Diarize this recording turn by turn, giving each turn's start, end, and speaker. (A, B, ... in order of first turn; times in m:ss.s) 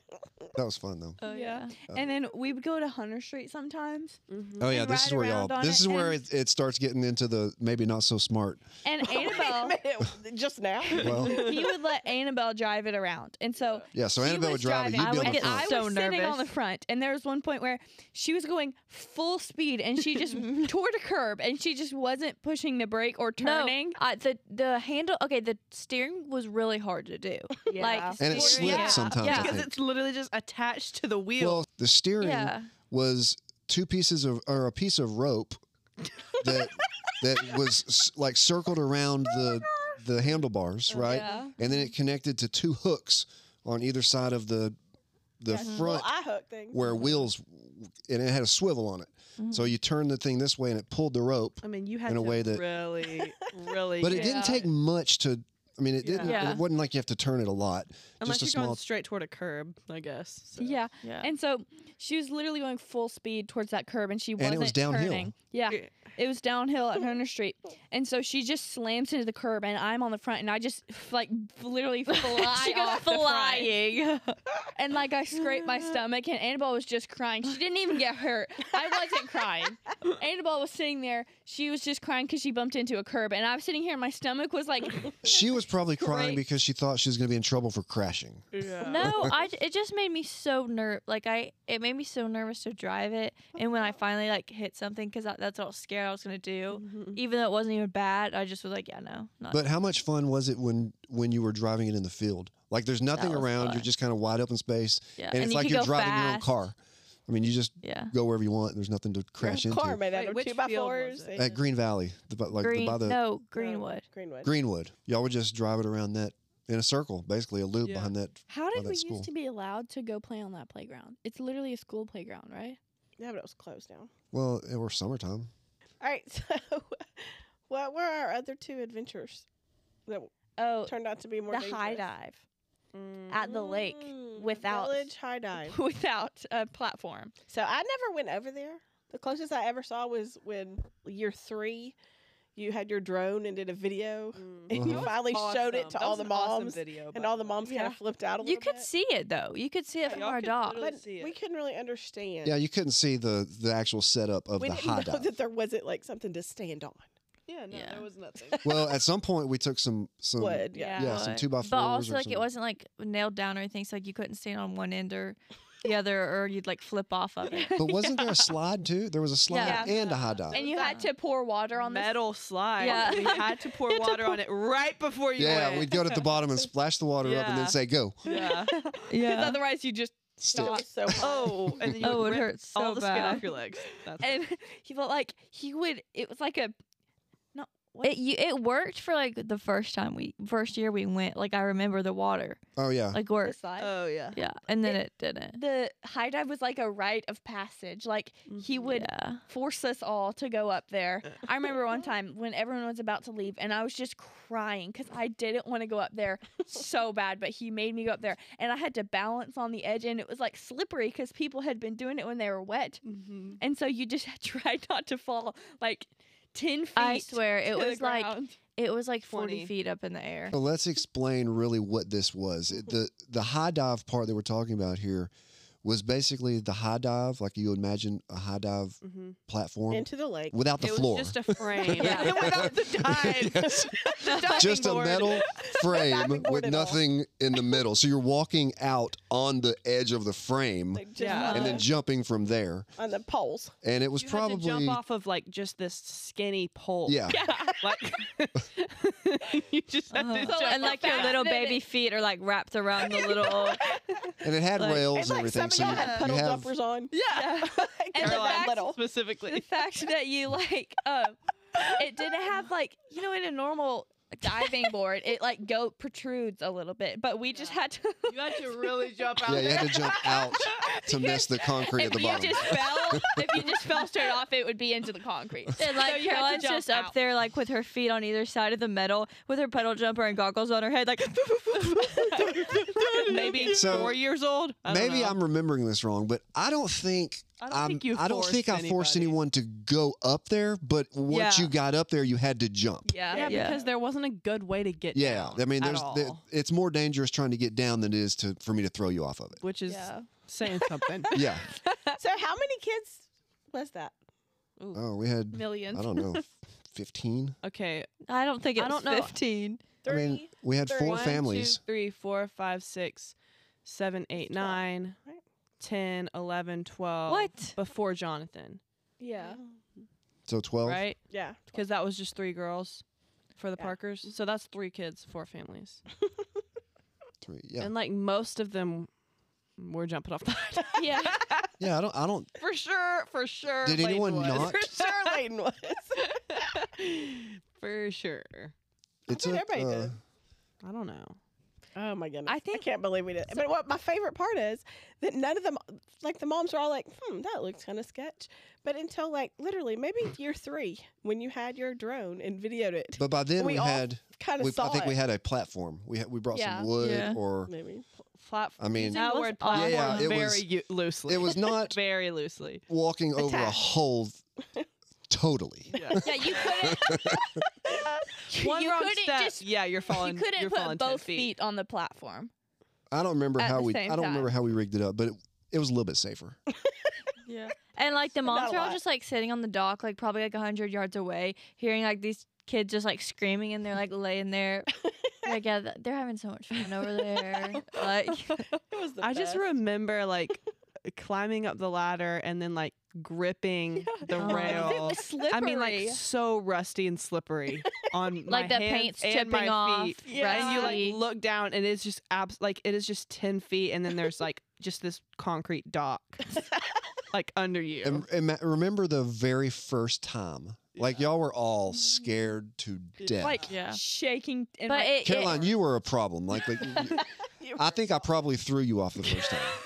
0:00.6-0:01.2 A
0:01.2-0:01.7 B
0:01.2-0:04.2 C
0:04.3-0:04.7 D
0:04.6-0:08.6 A
0:04.7-0:06.1 C
0:08.8-0:09.8 C
0:09.0-0:11.6 E
0:11.0-0:24.0 C
0:11.0-0:11.4 A
0:13.9-0:15.7 A
0:15.0-0:16.6 B
0:23.4-0:29.6 B
0:27.7-0:29.2 C
0:28.2-0:29.8 A
0:28.4-0:31.6 D
0:31.4-0:35.6 A
0:32.2-0:32.7 B
0:36.4-0:44.8 A
0:41.0-0:41.5 C
0:41.0-0:41.8 B
0:45.4-0:46.1 A
0:45.5-0:46.9 E
0:45.6-0:45.9 B
0:46.7-0:52.6 A
0:49.4-0:49.8 B
0:51.6-0:54.7 D
0:54.0-0:58.8 A
0:56.0-0:56.5 D
0:56.2-0:56.6 B
0:58.2-1:00.8 D
1:00.6-1:13.7 C
1:01.0-1:01.3 B
1:04.4-1:05.3 A
1:12.1-1:14.4 B
1:14.7-1:25.2 C
1:25.2-1:29.4 A
1:26.0-1:26.4 C
1:28.5-1:29.2 D
1:28.8-1:39.6 B
1:36.7-1:37.2 D
1:39.5-1:50.0 A
1:43.1-1:43.9 B
1:45.2-1:46.5 B
1:47.8-1:48.1 B
1:49.4-1:51.6 E
1:50.1-1:51.4 D
1:51.4-1:53.2 A
1:52.6-1:54.1 B
1:53.5-1:54.5 E
1:54.4-1:59.3 A
1:57.8-1:58.1 D
1:58.5-2:02.8 C
2:03.2-2:04.1 E
2:04.3-2:05.5 A
2:06.0-2:09.5 E
2:10.1-2:10.3 E
2:10.6-2:12.4 C
2:10.9-2:12.1 E
2:13.0-2:13.3 D
2:13.3-2:17.3 C
2:13.3-2:15.8 E
2:17.5-2:22.0 E
2:22.6-2:28.9 E
2:24.4-2:27.9 D
2:24.7-2:25.1 A
2:27.7-2:30.8 B
2:30.0-2:31.4 D
2:30.8-2:32.6 E
2:32.4-2:35.3 A
2:34.6-2:37.1 E
2:37.5-2:38.6 D
2:37.7-2:38.1 B
2:38.4-2:39.0 E
2:38.6-2:42.5 A
2:40.4-2:41.2 E
2:40.8-2:47.9 B
2:47.5-2:47.8 C
2:47.8-2:50.6 A
2:49.5-2:49.9 B
2:49.6-2:52.2 C
2:49.9-2:50.9 D
2:50.7-2:51.1 B
2:51.8-2:56.3 D
2:52.8-2:53.5 B
2:52.8-2:54.1 C
2:55.4-2:58.2 A
2:57.2-2:58.7 D
2:58.2-3:01.9 C
2:59.1-2:59.6 B
3:00.4-3:00.8 A
3:00.5-3:01.7 E
3:01.2-3:04.4 D
3:01.9-3:03.4 B
3:04.2-3:06.8 C
3:07.5-3:08.2 C
3:08.0-3:12.6 B
3:12.8-3:13.2 A
3:13.1-3:13.6 B
3:13.4-3:14.0 C
3:13.8-3:14.4 D
3:14.4-3:15.6 B
3:14.8-3:33.0 C
3:18.5-3:18.8 D
3:18.8-3:19.4 B
3:33.0-3:33.6 D
3:33.6-3:38.6 C
3:37.0-3:40.6 B
3:39.3-3:39.7 D
3:40.5-3:45.3 A
3:45.8-4:02.9 A
3:49.0-3:49.4 D
3:49.9-3:50.6 E
3:50.8-3:55.5 D
3:52.0-3:52.5 E
3:53.6-3:54.7 E
3:55.3-3:57.0 E
4:00.9-4:01.9 E
4:01.2-4:01.8 D
4:01.3-4:01.6 B
4:01.3-4:01.8 C
4:03.0-4:03.7 E
4:03.8-4:05.0 A
4:04.2-4:11.4 D
4:07.1-4:07.4 A
4:07.3-4:08.0 C
4:10.1-4:13.8 B
4:10.4-4:11.8 C
4:14.4-4:16.7 A
4:14.8-4:15.1 B
4:15.1-4:19.0 E
4:15.8-4:16.3 C
4:17.1-4:19.6 D
4:17.1-4:28.8 C
4:28.3-4:30.8 D
4:29.4-4:33.7 A
4:29.8-4:37.2 C
4:35.8-4:43.9 B
4:42.4-4:45.4 D
4:43.6-4:44.2 A
4:44.8-4:53.1 A
4:47.6-4:49.4 D
4:51.3-4:51.6 D
4:53.0-4:53.6 C
4:53.3-4:53.9 E
4:53.3-4:56.4 D
4:53.4-4:53.8 B
4:55.1-4:59.6 A
4:59.6-5:01.9 D
4:59.9-5:00.3 C
5:01.3-5:01.7 A
5:02.2-5:04.2 E
5:04.9-5:07.6 A
5:05.5-5:06.3 C
5:07.6-5:08.1 D
5:08.3-5:09.8 B
5:08.8-5:09.4 D
5:10.0-5:11.4 E
5:10.0-5:11.8 A
5:11.0-5:15.2 D
5:14.4-5:15.4 E
5:15.8-5:18.8 D
5:17.3-5:17.8 B
5:19.2-5:19.6 C
5:20.5-5:21.0 A
5:20.8-5:21.2 D
5:21.3-5:21.9 E
5:21.7-5:23.0 D
5:23.6-5:26.0 D
5:27.4-5:27.9 A
5:27.8-5:29.1 D
5:29.8-5:31.7 D
5:31.0-5:31.4 C
5:31.8-5:32.5 A
5:32.6-5:35.4 D
5:33.8-5:34.9 A
5:34.5-5:36.6 E
5:36.2-5:38.7 D
5:39.3-5:40.2 A
5:39.3-5:40.2 E
5:40.8-5:41.4 D
5:42.0-5:55.2 E
5:42.5-5:42.9 B
5:53.2-5:57.7 A
5:56.5-5:56.9 C
5:57.0-5:57.4 B
5:57.7-5:58.0 E
5:58.3-6:02.8 D
5:58.8-6:00.7 A
5:58.9-6:00.3 B
5:59.2-5:59.7 C
6:01.2-6:02.0 A
6:02.9-6:04.4 A
6:03.4-6:03.7 E
6:05.3-6:07.4 A
6:06.0-6:06.7 D
6:06.2-6:07.3 C
6:08.5-6:12.5 C
6:08.5-6:11.5 D
6:13.1-6:16.6 A
6:13.6-6:14.6 C
6:17.5-6:24.9 B
6:18.4-6:19.0 E
6:25.4-6:28.6 B
6:27.5-6:29.8 E
6:29.2-6:46.5 D
6:34.1-6:36.2 C
6:34.3-6:35.2 B
6:38.5-6:41.2 B
6:40.2-6:41.0 C
6:47.3-6:48.2 D
6:48.0-6:53.6 A
6:51.0-6:51.3 D
6:53.2-6:53.6 D
6:53.4-6:55.7 C
6:53.7-6:54.0 B
6:54.9-6:55.7 B
6:55.2-6:59.8 A
6:57.6-6:58.2 E